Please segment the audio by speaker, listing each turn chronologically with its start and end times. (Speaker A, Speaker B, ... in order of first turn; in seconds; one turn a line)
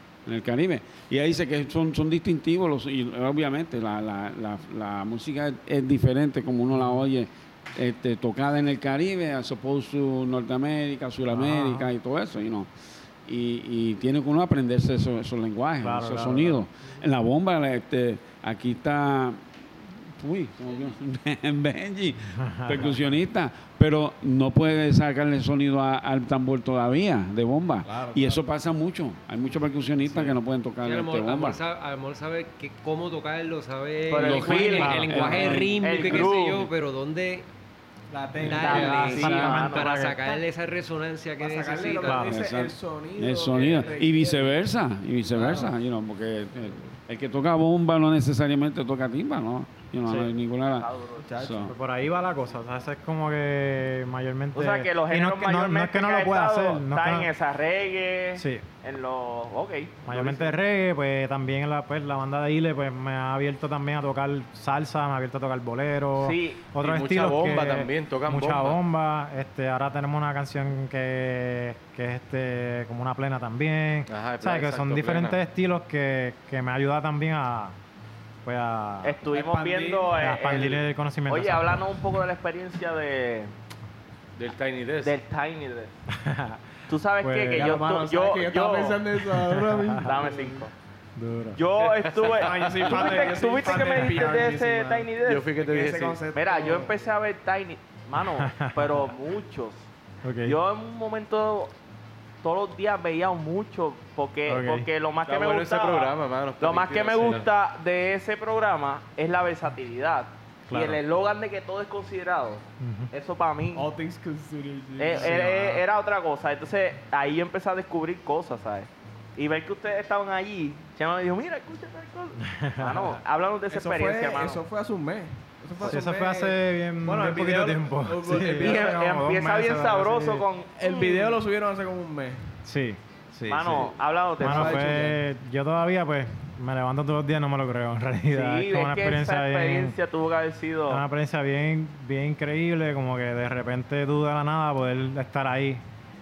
Speaker A: 0.3-12.7
Speaker B: 6.7-7.1
Speaker B: 11.3-11.9
Speaker A: 13.2-31.6
Speaker B: 15.8-16.7
Speaker B: 22.3-23.0
Speaker C: 27.9-28.4
Speaker C: 30.0-30.4
Speaker D: 30.8-37.5
Speaker E: 34.1-35.0
Speaker A: 34.1-36.3
Speaker B: 34.5-35.7
Speaker E: 35.8-36.6
Speaker C: 38.1-39.1
Speaker B: 38.4-40.4
Speaker D: 38.4-42.3
Speaker E: 38.6-39.9
Speaker C: 41.4-44.6
Speaker B: 42.0-42.4
Speaker A: 42.2-50.9
Speaker C: 45.3-45.7
Speaker B: 50.0-50.3
Speaker E: 50.6-51.3
Speaker C: 51.2-51.7
Speaker A: 51.4-51.7
Speaker B: 51.6-57.3
Speaker E: 54.5-60.6
Speaker B: 58.4-58.6
Speaker B: 60.0-77.8
Speaker E: 66.2-66.6
Speaker F: 66.8-68.8
Speaker F: 74.1-75.4
Speaker B: 78.4-81.9
Speaker E: 79.0-83.5
Speaker F: 84.4-85.2
Speaker E: 85.0-85.9
Speaker B: 86.1-86.6
Speaker E: 86.9-89.0
Speaker B: 87.2-87.8
Speaker C: 87.5-90.6
Speaker B: 89.3-90.0
Speaker E: 90.0-90.7
Speaker B: 91.2-91.6
Speaker E: 91.6-95.5
Speaker F: 91.8-93.8
Speaker C: 92.3-97.0
Speaker B: 93.8-94.5
Speaker F: 95.2-96.2
Speaker E: 96.3-99.9
Speaker B: 98.2-99.1
Speaker B: 100.2-100.6
Speaker E: 100.5-101.7
Speaker E: 102.4-113.9
Speaker B: 104.5-104.9
Speaker F: 105.2-107.5
Speaker B: 110.7-111.0
Speaker B: 112.8-113.1
Speaker C: 113.8-115.4
Speaker E: 115.0-124.6
Speaker B: 115.1-115.8
Speaker B: 122.4-123.2
Speaker C: 123.7-128.9
Speaker B: 125.8-130.5
Speaker E: 128.6-131.4
Speaker C: 130.8-132.4
Speaker B: 132.7-140.0
Speaker E: 133.5-135.0
Speaker C: 134.4-135.2
Speaker E: 138.3-141.0
Speaker B: 140.9-145.8